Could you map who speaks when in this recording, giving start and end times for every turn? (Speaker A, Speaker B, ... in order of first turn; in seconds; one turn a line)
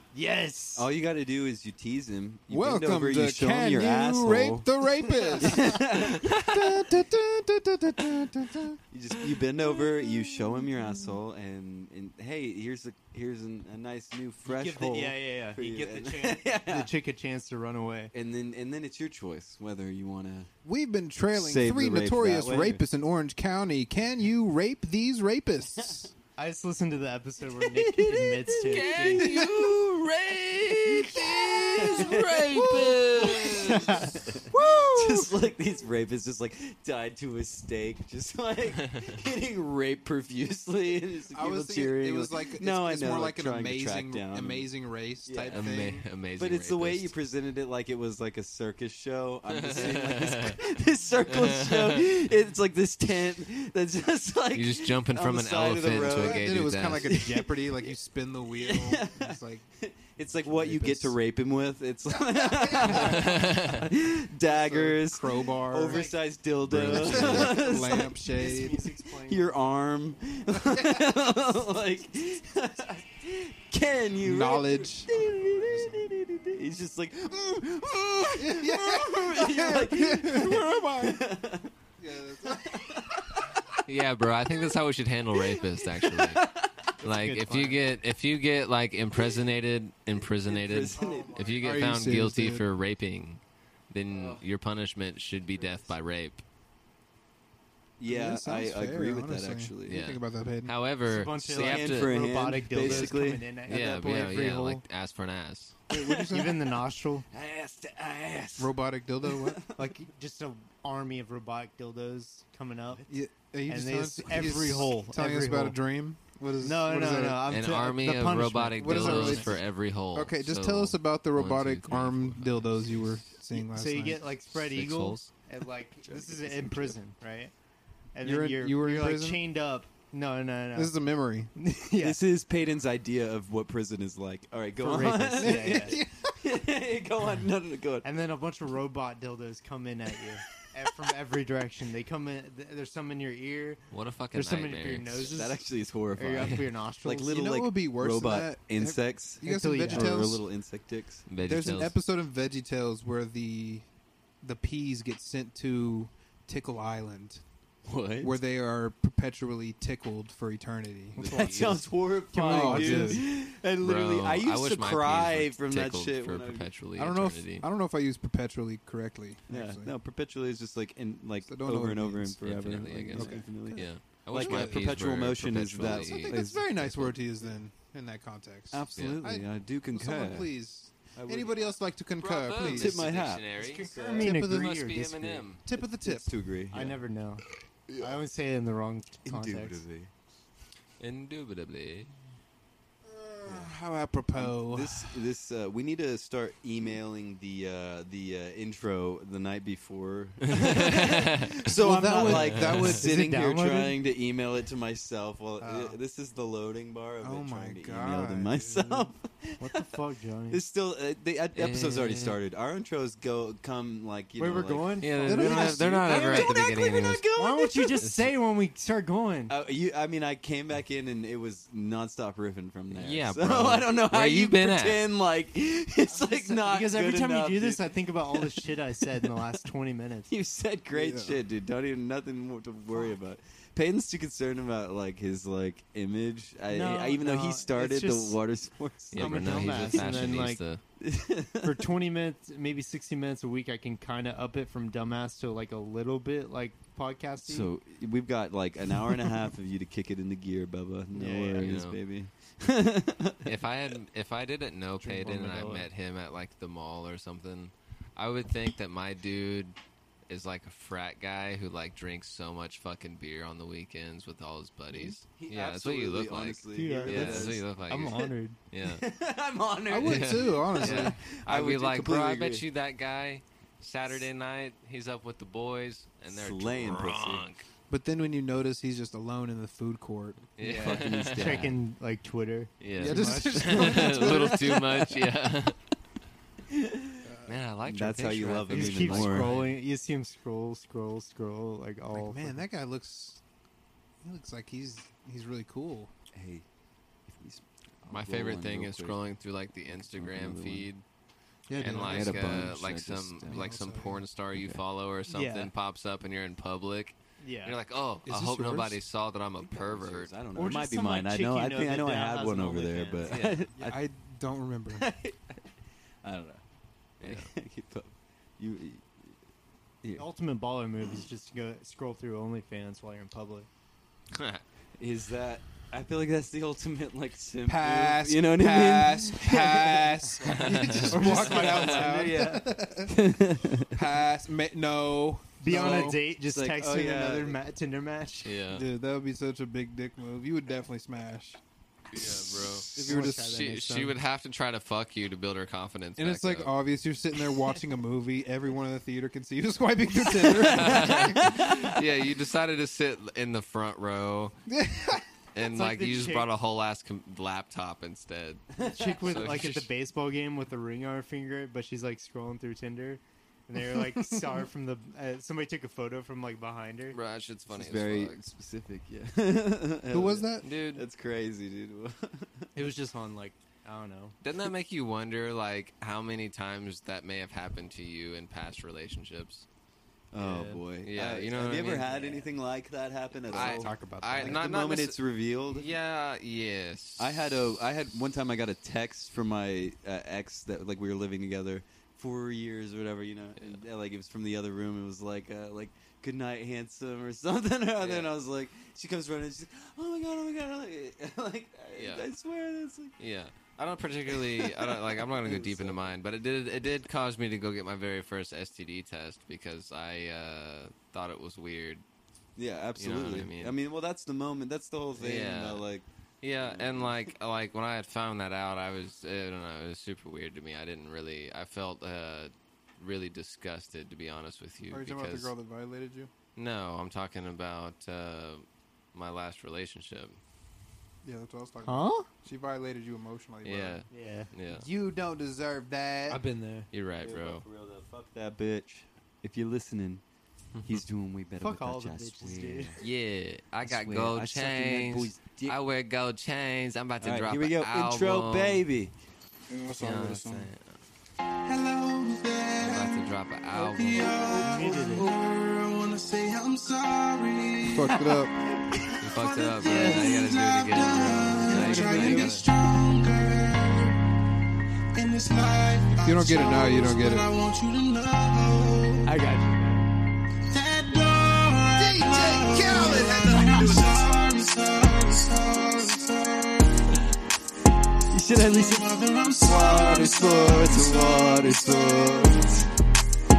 Speaker A: 0.1-0.9
Speaker B: 0.7-4.7
Speaker C: 2.5-8.8
Speaker A: 5.1-5.7
Speaker B: 5.4-6.3
Speaker D: 6.2-6.8
Speaker B: 8.9-16.9
Speaker A: 14.4-18.1
Speaker B: 18.1-20.5
Speaker C: 20.6-26.1
Speaker B: 21.3-22.8
Speaker A: 26.4-29.4
Speaker B: 28.3-28.9
Speaker D: 28.5-34.0
Speaker C: 29.2-29.6
Speaker B: 30.9-44.7
Speaker C: 32.5-35.4
Speaker A: 33.7-34.1
Speaker D: 38.8-39.2
Speaker C: 41.3-46.0
Speaker B: 45.2-45.8
Speaker D: 45.3-47.1
Speaker B: 46.4-57.6
Speaker D: 49.5-50.6
Speaker D: 51.2-52.2
Speaker D: 54.5-57.2
Speaker C: 55.9-59.6
Speaker B: 58.5-68.1
Speaker C: 60.4-61.2
Speaker C: 62.1-63.7
Speaker D: 62.8-63.9
Speaker C: 64.5-66.0
Speaker A: 65.8-66.3
Speaker C: 66.6-68.8
Speaker D: 66.7-67.6
Speaker A: 67.0-69.5
Speaker B: 69.3-81.7
Speaker C: 70.5-71.2
Speaker C: 74.2-76.2
Speaker C: 78.3-81.3
Speaker C: 82.0-83.1
Speaker B: 82.5-83.5
Speaker D: 83.8-86.4
Speaker B: 85.5-86.9
Speaker A: 87.0-87.8
Speaker D: 87.0-96.4
Speaker B: 90.2-91.5
Speaker C: 90.8-92.6
Speaker B: 94.1-94.4
Speaker B: 98.0-100.0
Speaker C: 98.0-100.8
Speaker D: 99.9-102.2
Speaker A: 101.0-104.8
Speaker B: 101.4-104.1
Speaker D: 103.7-105.8
Speaker C: 105.9-106.6
Speaker B: 105.9-106.3
Speaker A: 106.3-107.3
Speaker B: 107.3-109.9
Speaker C: 108.6-109.6
Speaker A: 109.8-113.0
Speaker C: 113.1-117.4
Speaker A: 113.7-115.8
Speaker A: 116.6-119.6
Speaker D: 117.5-122.9
Speaker C: 118.8-119.6
Speaker C: 120.1-124.2
Speaker A: 123.5-127.5
Speaker D: 124.5-125.3
Speaker B: 126.0-127.0
Speaker A: 128.1-130.9
Speaker C: 128.2-129.4
Speaker C: 130.7-131.5
Speaker A: 131.6-132.2
Speaker B: 132.0-138.1
Speaker A: 134.8-136.0
Speaker C: 135.3-136.4
Speaker A: 138.0-147.4
Speaker D: 143.9-145.4
Speaker B: 145.3-151.2
Speaker D: 146.4-146.6
Speaker C: 147.2-150.4
Speaker A: 149.4-150.4
Speaker D: 151.3-151.9
Speaker C: 151.4-153.8
Speaker C: 154.4-157.4
Speaker B: 157.8-158.4
Speaker C: 158.2-161.4
Speaker D: 161.2-161.8
Speaker B: 161.2-166.7
Speaker A: 161.4-161.7
Speaker C: 162.3-163.2
Speaker D: 162.4-167.6
Speaker C: 167.0-169.9
Speaker B: 169.5-176.6
Speaker C: 171.4-172.4
Speaker D: 172.4-177.1
Speaker C: 173.1-174.9
Speaker C: 175.8-183.1
Speaker B: 178.7-180.5
Speaker B: 181.1-181.7
Speaker D: 182.2-185.6
Speaker B: 182.6-184.3
Speaker A: 183.6-185.4
Speaker C: 184.2-184.8
Speaker C: 185.6-186.4
Speaker B: 186.0-187.0
Speaker A: 186.7-187.4
Speaker A: 188.0-189.8
Speaker B: 189.2-190.1
Speaker D: 191.0-192.1
Speaker C: 193.0-195.2
Speaker B: 193.4-193.7
Speaker B: 194.3-209.9
Speaker D: 200.5-201.6
Speaker C: 201.7-203.1
Speaker D: 202.2-203.0
Speaker A: 202.9-204.0
Speaker C: 205.6-206.0
Speaker C: 207.2-209.1
Speaker A: 209.6-210.6
Speaker B: 210.5-218.0
Speaker D: 211.5-212.3
Speaker A: 214.4-216.6
Speaker D: 215.0-217.2
Speaker C: 215.2-215.6
Speaker A: 217.3-219.5
Speaker D: 218.0-218.3
Speaker B: 219.5-229.2
Speaker D: 222.9-225.0
Speaker A: 226.1-230.3
Speaker B: 230.3-240.2
Speaker C: 230.9-231.4
Speaker A: 236.7-238.4
Speaker D: 239.1-240.8
Speaker A: 239.2-240.6
Speaker B: 241.0-241.8
Speaker A: 241.6-247.7
Speaker B: 247.4-253.6
Speaker A: 251.1-251.8
Speaker D: 251.6-252.0
Speaker D: 253.4-259.8
Speaker A: 255.0-255.9
Speaker D: 260.3-269.0
Speaker B: 265.4-268.2
Speaker A: 266.7-268.6
Speaker B: 268.8-272.6
Speaker C: 269.9-271.2
Speaker D: 269.9-277.6
Speaker B: 276.3-277.5
Speaker C: 277.9-280.5
Speaker D: 280.6-281.7
Speaker B: 280.6-281.8
Speaker A: 280.6-284.6
Speaker D: 282.8-285.8
Speaker C: 283.0-284.9
Speaker B: 286.7-287.2
Speaker C: 287.2-287.6
Speaker D: 287.5-289.8
Speaker B: 287.8-289.5
Speaker A: 288.7-292.6
Speaker C: 292.1-293.4
Speaker C: 294.2-296.1
Speaker B: 296.3-296.6
Speaker B: 297.3-299.2
Speaker D: 298.1-301.0
Speaker B: 299.9-300.9
Speaker C: 301.7-302.6
Speaker A: 301.8-302.2
Speaker D: 301.8-310.3
Speaker B: 302.0-303.7
Speaker C: 303.5-304.2
Speaker B: 304.5-304.8
Speaker A: 305.3-305.7
Speaker A: 307.4-307.8
Speaker C: 308.2-309.0
Speaker B: 309.6-314.0
Speaker A: 310.5-313.5
Speaker D: 313.2-313.6
Speaker C: 313.8-315.1
Speaker B: 314.9-315.7
Speaker B: 316.2-316.6
Speaker D: 317.2-317.5
Speaker B: 317.2-319.4
Speaker A: 320.1-323.7
Speaker D: 324.3-324.6
Speaker B: 325.0-330.2
Speaker C: 327.7-333.2
Speaker A: 330.4-332.4
Speaker D: 330.4-332.0
Speaker B: 330.9-334.0
Speaker C: 333.7-336.2
Speaker A: 335.6-338.6
Speaker B: 335.7-337.6
Speaker D: 338.4-338.9
Speaker C: 338.7-341.6
Speaker D: 342.1-346.7
Speaker A: 342.9-344.2
Speaker C: 342.9-343.6
Speaker C: 346.2-351.7
Speaker B: 350.2-352.0
Speaker D: 350.4-354.6
Speaker C: 354.7-355.2
Speaker D: 355.5-359.9
Speaker A: 355.6-356.5
Speaker B: 358.7-359.4
Speaker A: 358.8-367.2
Speaker C: 364.0-364.5
Speaker D: 367.1-368.4
Speaker B: 367.7-372.7
Speaker C: 370.1-370.7
Speaker D: 370.6-371.0
Speaker A: 372.7-374.4
Speaker D: 374.4-379.6
Speaker B: 380.3-385.9
Speaker A: 380.4-380.8
Speaker D: 381.0-382.3
Speaker A: 382.0-382.4
Speaker A: 383.5-384.6
Speaker D: 383.5-387.6
Speaker B: 387.2-403.1
Speaker D: 398.0-398.3
Speaker D: 401.9-402.3
Speaker D: 403.2-412.0
Speaker B: 404.3-406.1
Speaker B: 412.6-416.1
Speaker D: 413.0-413.7
Speaker D: 415.2-415.8
Speaker D: 416.4-425.5
Speaker B: 416.6-417.3
Speaker C: 424.9-426.3
Speaker D: 426.6-430.4
Speaker C: 431.2-434.0
Speaker A: 431.8-432.3
Speaker D: 433.6-434.9
Speaker A: 434.1-434.5
Speaker C: 434.7-436.4
Speaker A: 436.3-436.9
Speaker D: 436.9-437.6
Speaker B: 437.2-440.2
Speaker B: 440.8-443.0
Speaker A: 441.6-443.0
Speaker D: 443.0-448.8
Speaker B: 443.8-445.8
Speaker B: 447.2-449.1
Speaker C: 449.7-450.7
Speaker D: 450.0-450.9
Speaker E: 451.6-458.4
Speaker D: 452.8-454.4
Speaker A: 454.4-455.3
Speaker C: 457.8-458.5
Speaker E: 458.9-464.2
Speaker D: 459.2-462.6
Speaker A: 459.8-460.4
Speaker A: 461.7-462.6
Speaker E: 465.1-469.3
Speaker C: 466.2-467.5
Speaker A: 469.2-470.1
Speaker E: 470.7-477.2
Speaker C: 472.0-474.1
Speaker B: 478.3-479.1
Speaker E: 478.5-482.9
Speaker B: 479.6-482.9